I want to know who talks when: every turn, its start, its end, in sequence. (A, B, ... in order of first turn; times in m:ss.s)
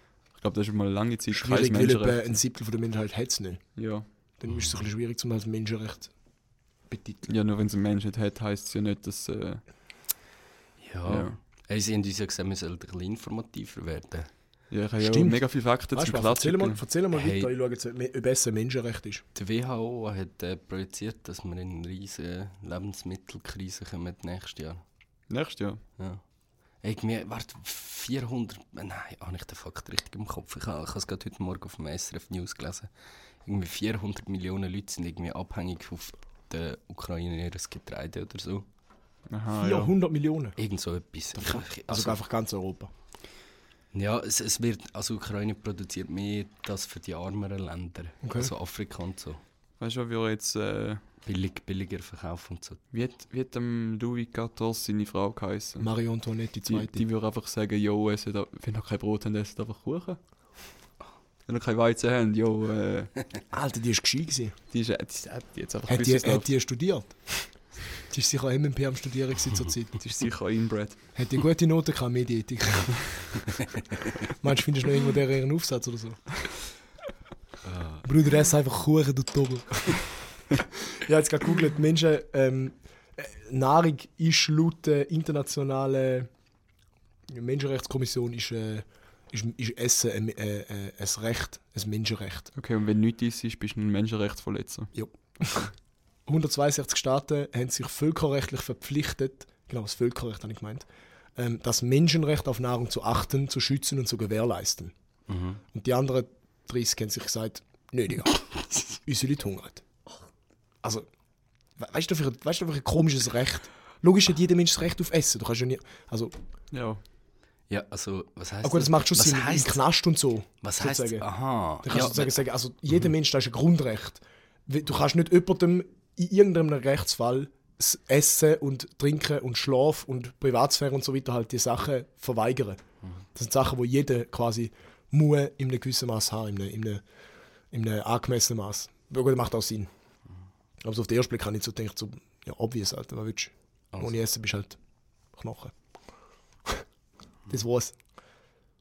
0:00.4-0:02.3 A
0:01.3-0:03.6 B
0:03.8-0:04.1 A
0:04.4-0:06.1 B
0:06.9-0:07.3 B
0:07.3-0:09.6 A
0:10.8-0:14.3 C
0:11.1-0:11.4 A
0:14.7-0:16.8 A
0:15.0-0:19.2 B
0:17.1-0:17.5 C
0:19.4-0:24.8 C
0:25.3-0:25.8 A
0:26.8-0:32.9 C
0:33.4-0:38.7 C
0:39.3-0:39.9 A
0:39.6-0:40.6 B
0:40.6-0:42.2 C
0:41.4-0:42.9 B
0:43.9-0:49.4 C
0:48.2-0:48.5 B
0:49.8-0:51.0 A
0:51.2-0:52.8 C
0:52.9-0:55.9 A
0:55.8-0:57.0 B
0:56.6-1:00.2 A
1:01.5-1:03.3 A
1:03.5-1:04.6 B
1:04.7-1:06.5 A
1:05.9-1:07.5 B
1:08.1-1:10.0 B
1:10.0-1:11.1 A
1:11.2-1:13.4 B
1:14.3-1:16.4 B
1:17.6-1:18.1 C
1:18.0-1:26.3 B
1:27.3-1:32.5 B
1:32.6-1:34.9 A
1:34.9-1:35.7 B
1:36.3-1:44.9 B
1:45.3-1:45.6 C
1:45.7-1:49.8 B
1:51.8-1:56.3 B
1:56.7-1:57.0 A
1:57.7-1:59.8 C
1:58.6-2:01.3 B
2:00.6-2:02.4 C
2:01.8-2:12.8 B
2:13.4-2:17.0 B
2:17.7-2:19.9 B
2:20.8-2:24.8 B
2:25.3-2:25.7 B
2:27.5-2:28.0 B